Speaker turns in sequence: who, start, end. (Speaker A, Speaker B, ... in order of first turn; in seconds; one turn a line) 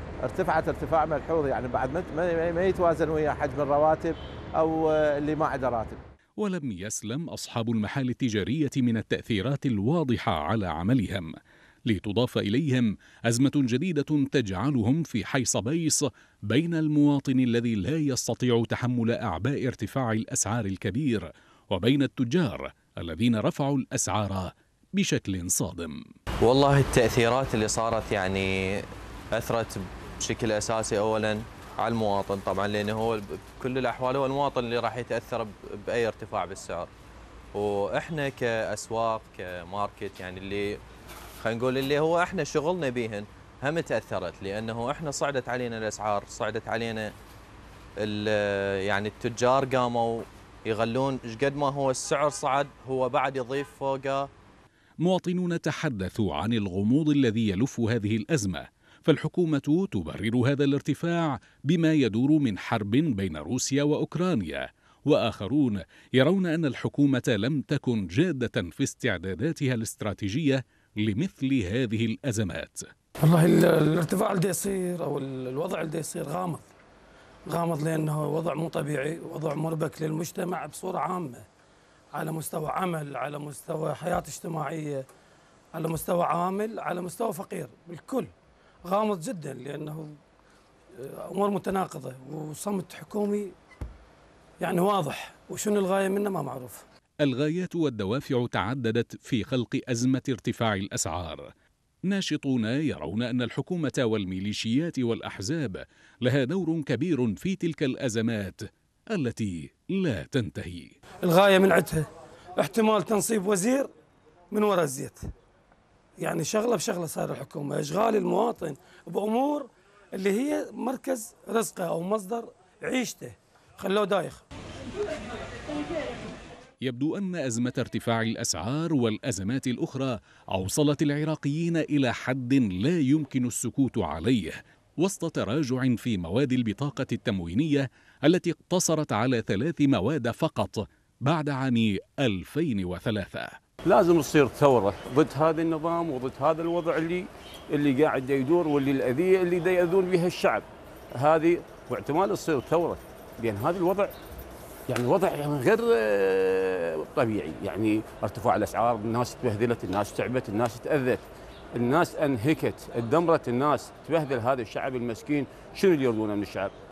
Speaker A: 0.2-6.0
Speaker B: 6.4-11.3
Speaker B: 11.9-26.0
Speaker C: 26.4-36.9
Speaker C: 37.5-40.8
Speaker C: 41.4-47.1
Speaker C: 48.0-54.3
Speaker B: 55.0-72.9
Speaker D: 73.2-76.7
Speaker D: 77.5-81.5
Speaker D: 82.1-85.0
Speaker D: 85.7-88.3
Speaker D: 88.9-90.2
Speaker D: 91.0-93.5
Speaker D: 94.6-96.8
Speaker B: 97.2-101.5
Speaker B: 102.1-111.0
Speaker D: 111.2-112.0
Speaker D: 112.6-113.9
Speaker D: 114.5-115.2
Speaker D: 116.2-124.5
Speaker B: 126.8-143.6
Speaker E: 143.8-154.1
Speaker E: 154.9-166.7